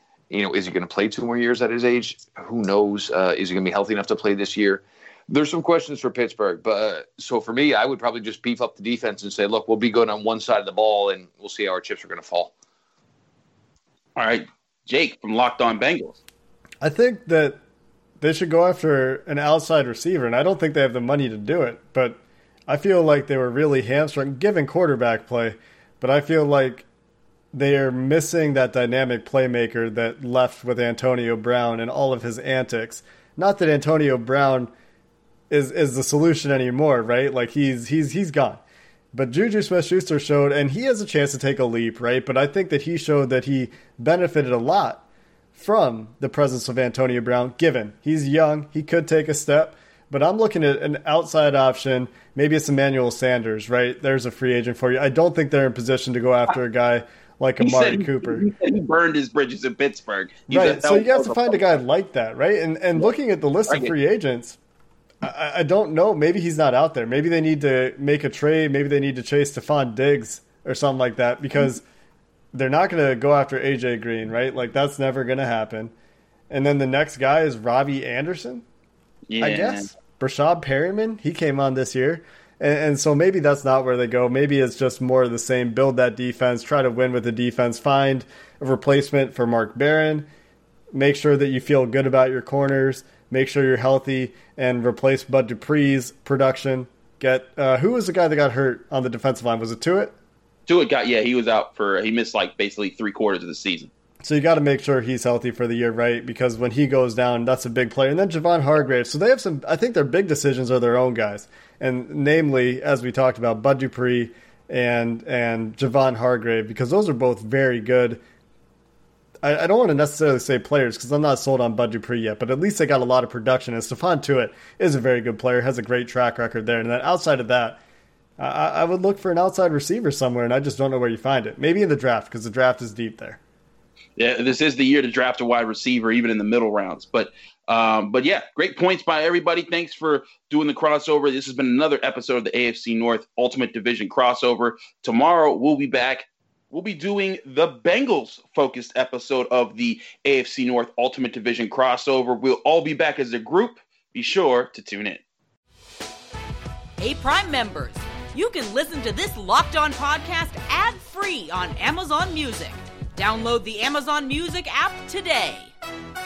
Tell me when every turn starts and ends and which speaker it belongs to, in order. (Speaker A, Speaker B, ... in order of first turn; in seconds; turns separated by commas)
Speaker A: 0.3-12.5, Speaker B: 14.2-16.2, Speaker C: 16.8-17.6, Speaker C: 18.2-26.9, Speaker C: 27.5-34.7, Speaker C: 35.5-45.0, Speaker C: 45.5-58.5, Speaker B: 57.6-61.7, Speaker C: 60.5-64.6, Speaker C: 65.2-71.8, Speaker C: 72.5-75.9, Speaker C: 76.5-78.7, Speaker B: 79.3-79.9, Speaker C: 79.4-90.3, Speaker C: 90.9-100.2, Speaker B: 100.7-103.9, Speaker C: 104.2-118.2, Speaker C: 119.4-127.8, Speaker C: 128.4-133.4, Speaker B: 134.2-155.2, Speaker D: 157.0-165.7